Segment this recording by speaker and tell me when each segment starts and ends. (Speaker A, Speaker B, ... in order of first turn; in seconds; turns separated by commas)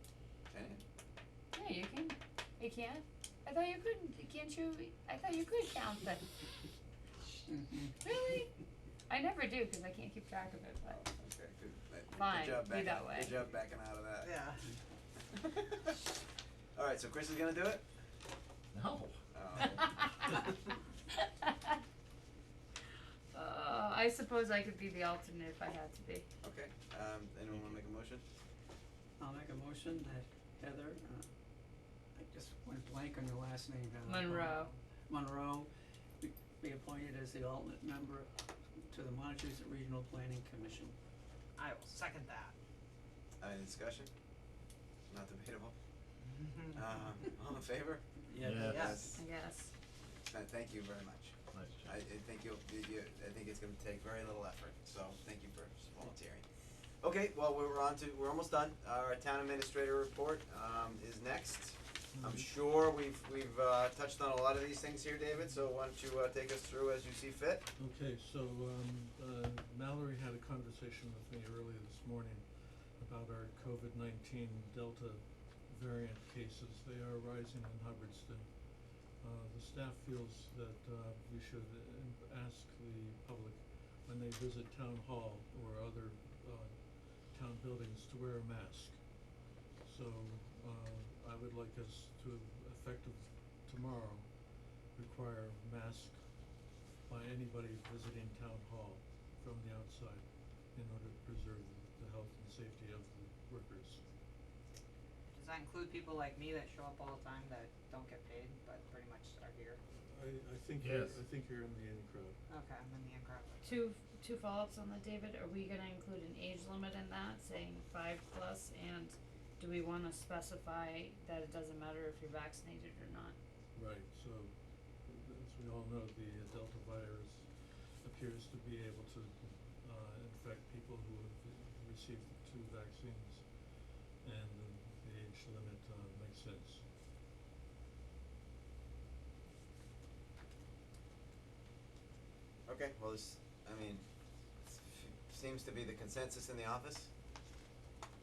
Speaker A: 0.5-0.8, Speaker B: 1.5-6.4, Speaker C: 7.5-7.9, Speaker B: 8.0-8.5, Speaker B: 9.1-11.1, Speaker A: 11.0-14.3, Speaker B: 12.2-13.4, Speaker D: 14.2-14.6, Speaker A: 15.3-16.0, Speaker A: 16.7-17.8, Speaker E: 18.7-19.2, Speaker A: 19.3-19.8, Speaker B: 19.8-20.2, Speaker B: 21.1-21.7, Speaker B: 23.3-26.3, Speaker A: 26.4-28.2, Speaker C: 27.5-27.8, Speaker C: 29.2-31.3, Speaker C: 32.1-34.5, Speaker B: 34.0-34.7, Speaker D: 34.5-34.8, Speaker C: 35.1-38.3, Speaker C: 38.9-40.9, Speaker D: 41.6-42.5, Speaker A: 43.4-44.1, Speaker A: 45.1-45.7, Speaker D: 46.3-46.8, Speaker A: 46.7-49.2, Speaker C: 48.3-48.9, Speaker E: 48.4-49.1, Speaker D: 48.6-49.0, Speaker B: 49.1-49.7, Speaker A: 50.2-56.4, Speaker E: 51.5-51.9, Speaker A: 57.0-67.7, Speaker F: 62.1-62.5, Speaker F: 67.8-78.5, Speaker F: 79.2-89.0, Speaker F: 89.8-94.3, Speaker F: 94.9-96.2, Speaker F: 97.0-104.0, Speaker D: 105.3-109.8, Speaker F: 110.0-112.4, Speaker E: 110.8-111.2, Speaker D: 112.5-113.8, Speaker B: 113.6-123.3, Speaker F: 123.7-133.7, Speaker F: 134.2-136.8, Speaker A: 142.7-144.1, Speaker A: 144.7-147.1